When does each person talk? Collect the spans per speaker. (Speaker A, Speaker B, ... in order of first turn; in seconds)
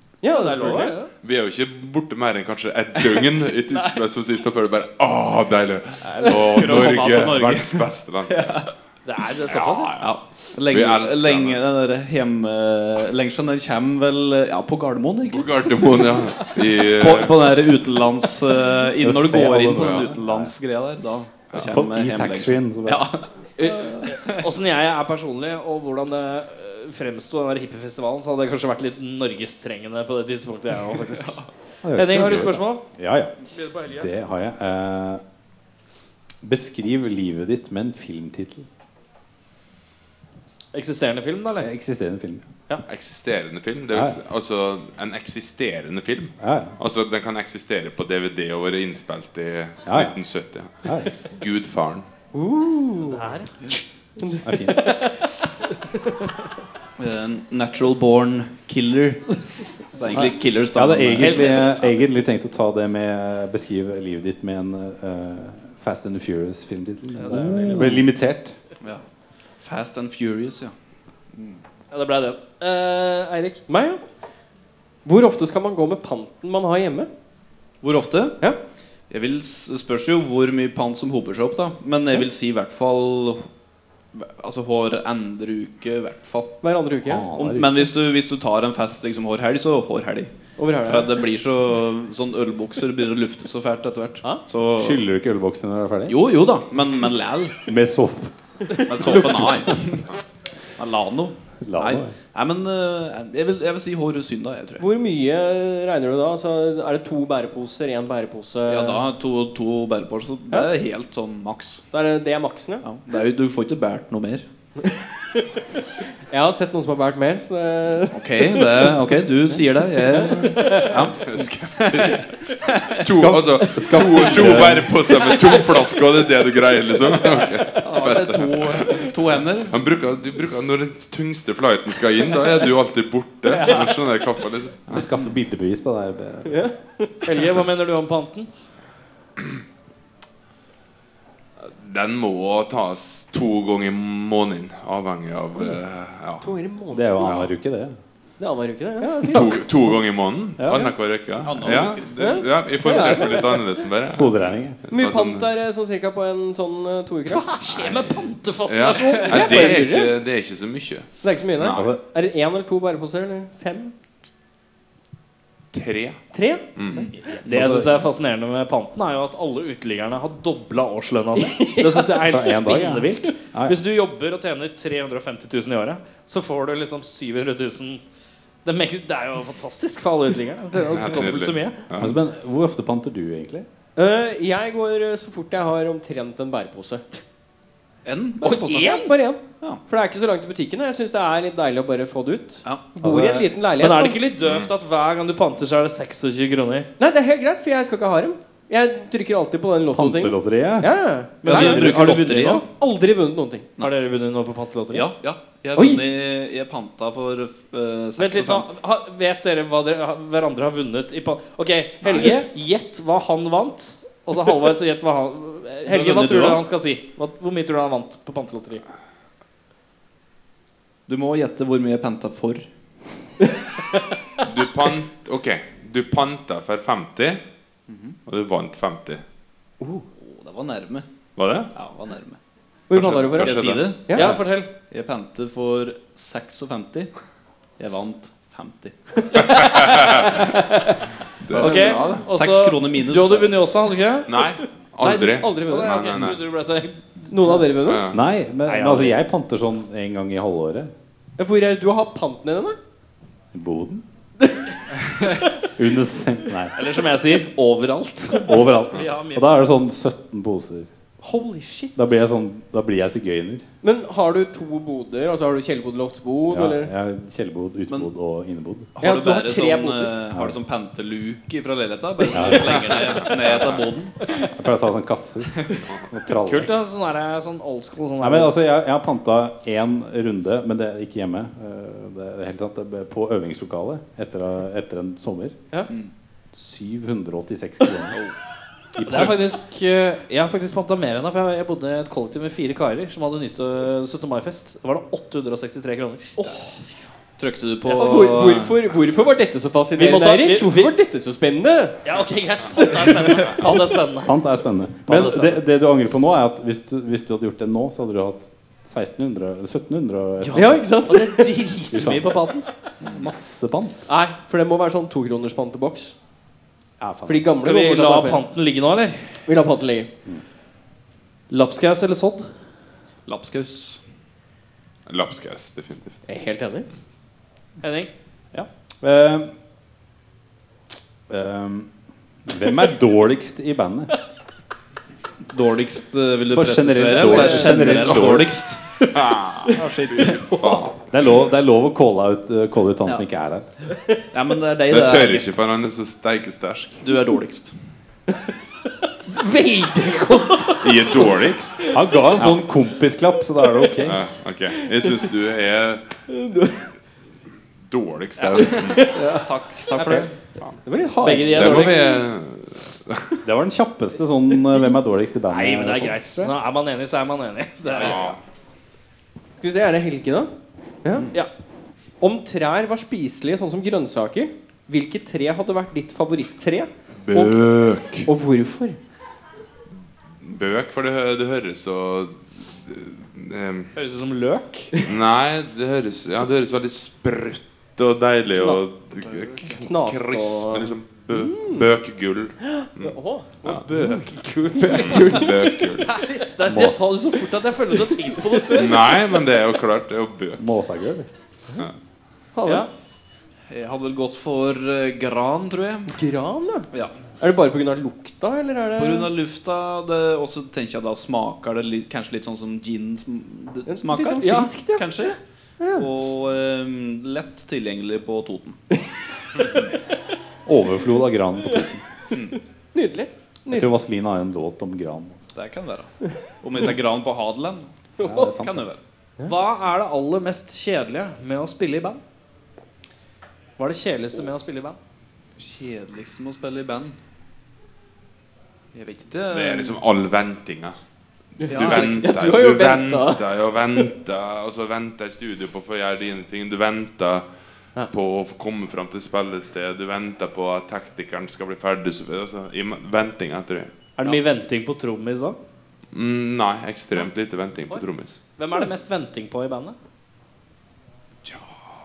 Speaker A: 0.2-1.1, 52.3-53.3, 54.2-56.1, 73.7-74.0, 75.0-77.1, 86.6-87.3, 90.6-91.3, 104.8-109.0, 111.9-112.8, 116.1-119.0, 120.1-120.9, 136.5-137.4, 146.4-147.2, 148.4-149.5, 152.2-153.7, 154.9-157.5, 159.2-160.2, 161.2-163.9, 166.3-167.1, 171.3-172.4, 184.0-187.1, 188.5-194.2, 197.0-203.7, 205.8-206.0, 229.8-230.1, 232.9-234.3, 239.3-241.0, 241.6-242.1, 244.4-246.2, 247.3-248.1, 251.4-252.8, 261.2-262.1, 263.8-266.9, 269.0-270.2, 296.4-296.8, 297.9-302.1, 302.8-303.8, 310.5-311.6, 314.1-316.1, 317.3-318.4, 319.5-320.1, 326.3-326.9, 337.2-338.1, 340.2-340.8, 349.3-352.0, 356.3-356.9, 358.8-360.2, 360.9-362.1, 369.6-370.5, 371.0-371.3, 372.2-377.6, 378.3-379.0, 389.8-391.9, 392.6-393.5, 394.7-396.0, 398.0-398.9, 402.6-402.9, 406.1-409.3, 413.9-416.1, 422.9-423.9, 428.2-428.4, 441.6-443.4
Speaker B: 0.2-1.1, 9.1-10.0, 23.6-32.9, 33.5-34.1, 40.7-41.7, 53.0-53.8, 61.2-61.6, 67.2-68.0, 71.9-73.6, 137.2-138.5, 149.0-149.4, 157.3-159.8, 167.4-178.0, 178.7-181.8, 188.4-189.1, 193.8-196.9, 201.4-202.6, 203.8-205.1, 208.2-218.8, 234.1-234.7, 241.6-244.4, 245.0-247.7, 248.7-249.2, 256.8-259.5, 276.4-278.5, 289.0-296.4, 299.9-300.9, 302.0-304.4, 305.1-305.6, 310.4-312.7, 317.6-319.4, 321.5-322.5, 327.8-328.1, 361.2-362.2, 365.5-368.2, 384.0-384.9, 393.6-395.5, 396.0-399.1, 429.4-432.2, 433.8-435.0, 454.2-455.6, 458.6-459.9
Speaker C: 1.2-8.5, 9.4-10.2, 10.7-11.6, 15.3-17.5, 19.8-20.1, 21.5-21.8, 42.9-52.1, 120.8-129.1, 129.6-135.1, 141.6-146.6, 147.2-147.5, 149.2-155.5, 157.6-161.9, 165.7-166.2, 166.8-167.1, 180.9-182.2, 194.4-194.7, 224.4-227.4, 228.3-229.2, 231.4-231.7, 232.9-233.9, 239.6-240.4, 241.4-242.2, 244.3-246.4, 247.8-248.2, 272.9-273.9, 325.1-326.2, 339.1-341.1, 344.9-347.0, 350.8-351.9, 354.0-356.1, 357.9-359.2, 361.5-363.4, 367.9-368.4, 377.2-378.3, 380.4-383.9, 385.0-393.9, 394.9-396.1, 398.7-400.7, 439.5-441.0, 441.6-447.4, 448.1-453.9, 456.1-458.4
Speaker D: 6.0-8.7, 10.0-16.1, 16.8-24.4, 31.2-31.5, 57.0-61.9, 67.3-67.9, 69.6-70.7, 77.8-78.4, 79.1-83.5, 84.1-86.6, 87.4-95.0, 96.1-97.6, 98.8-100.1, 100.8-104.9, 108.7-111.8, 112.8-114.5, 118.1-121.3, 121.8-123.0, 127.7-129.8, 151.4-152.4, 188.1-189.0, 201.4-202.7, 204.9-208.7, 212.0-212.5, 215.8-216.6, 221.1-222.7, 227.9-228.2, 230.2-231.1, 231.7-232.4, 233.3-234.3, 234.9-237.1, 237.8-239.4, 241.5-243.6, 268.9-274.3, 297.4-298.8, 313.0-313.3, 323.3-324.0, 335.5-339.0, 339.7-340.6, 344.3-345.5, 347.0-347.8, 358.6-360.4, 367.9-368.3, 403.7-406.2, 406.9-407.2, 409.0-418.8, 422.3-422.6, 425.5-427.9, 428.5-429.0, 435.6-437.1, 438.9-440.0, 441.7-442.2
Speaker E: 19.0-20.5, 21.6-23.1, 31.8-33.4, 33.9-35.2, 36.4-38.7, 41.6-42.4, 43.9-44.2, 46.4-46.8, 49.9-50.2, 50.8-51.1, 54.4-55.0, 60.1-68.6, 87.1-87.9, 94.8-96.2, 97.7-98.3, 98.9-99.7, 101.6-102.1, 123.1-124.9, 134.9-136.7, 146.9-147.9, 149.2-149.7, 150.6-150.9, 154.2-154.8, 161.6-162.0, 167.4-168.1, 172.3-173.8, 182.0-183.7, 193.0-193.6, 199.9-200.9, 248.1-250.9, 253.5-254.0, 255.6-256.8, 258.4-260.9, 261.9-263.6, 266.5-268.9, 270.3-270.6, 272.3-272.9, 274.4-276.7, 278.2-285.6, 286.5-288.2, 289.0-289.4, 304.2-310.8, 311.9-312.4, 313.1-313.9, 317.0-317.6, 328.5-329.5, 331.3-331.9, 332.5-334.1, 336.5-338.6, 341.1-343.7, 351.9-354.2, 363.4-366.5, 396.6-397.0, 400.6-401.3, 420.7-422.0, 423.7-425.4, 428.2-428.8